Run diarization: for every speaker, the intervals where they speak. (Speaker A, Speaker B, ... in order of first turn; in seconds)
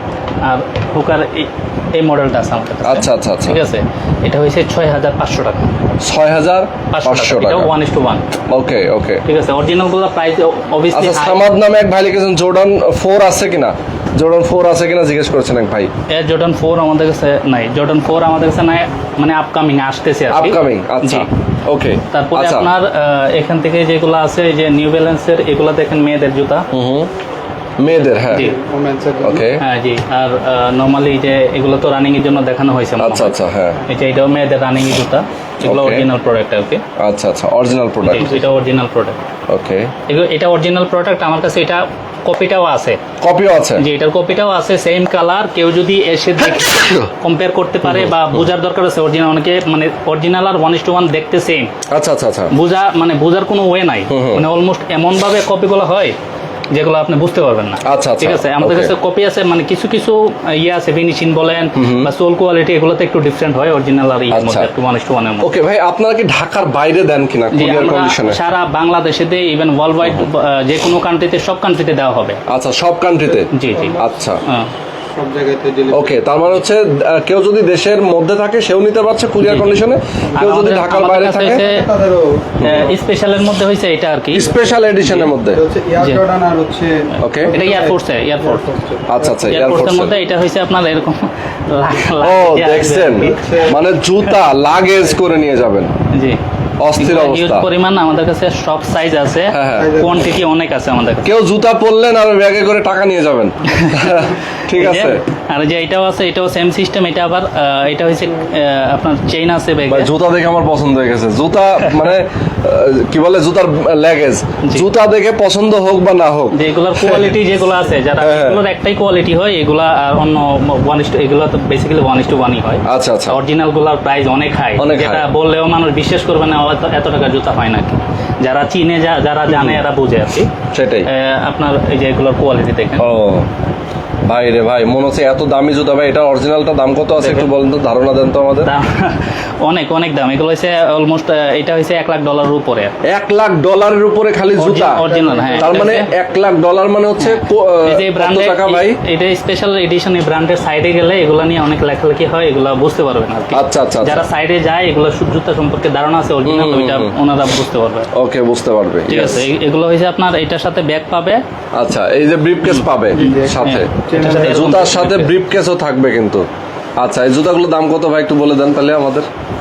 Speaker A: 0.4-5.7, 6.9-8.3, 9.2-11.4, 16.1-21.3, 22.1-26.7, 27.9-28.5, 29.6-33.3, 33.9-36.8, 38.1-39.2, 40.1-43.0, 43.8-51.7, 52.5-56.2, 56.7-65.5, 67.5-72.4, 73.5-74.7, 79.4-79.8, 80.3-81.8, 82.6-84.5, 85.0-85.3, 87.5-88.6, 89.4-93.7, 96.1-96.4, 97.0-101.3, 103.7-110.1, 114.6-114.9, 116.5-130.5, 131.1-133.1, 137.2-137.5, 138.6-142.9, 144.6-146.1, 147.2-158.1, 159.1-161.4, 162.6-165.3
Speaker B: 2.8-3.6, 6.0-7.7, 8.5-9.2, 10.9-15.9, 20.3-22.7, 26.7-27.1, 27.8-28.5, 29.2-29.6, 33.0-33.8, 35.6-36.1, 37.0-38.4, 39.5-39.9, 43.2-43.8, 46.7-47.1, 47.9-48.4, 51.9-52.5, 54.1-54.4, 57.8-58.9, 61.7-62.1, 64.3-64.7, 65.4-68.4, 72.5-74.4, 75.9-81.6, 82.6-82.9, 84.3-85.6, 87.2-87.5, 89.1-90.2, 92.2-95.9, 96.8-97.7, 99.5-99.9, 101.2-105.2, 109.9-117.3, 118.2-118.6, 122.8-123.4, 124.8-125.2, 129.5-129.8, 130.7-131.1, 133.0-133.5, 134.2-138.7, 143.0-145.1, 145.6-149.0, 153.5-154.2, 156.4-157.1, 158.1-159.5, 161.7-166.4, 167.0-169.3
Speaker C: 28.4-29.5, 73.2-74.1, 75.1-76.3, 81.5-83.0, 84.3-84.8, 85.5-89.5, 93.2-93.8, 99.7-100.4, 145.0-145.8, 163.1-164.9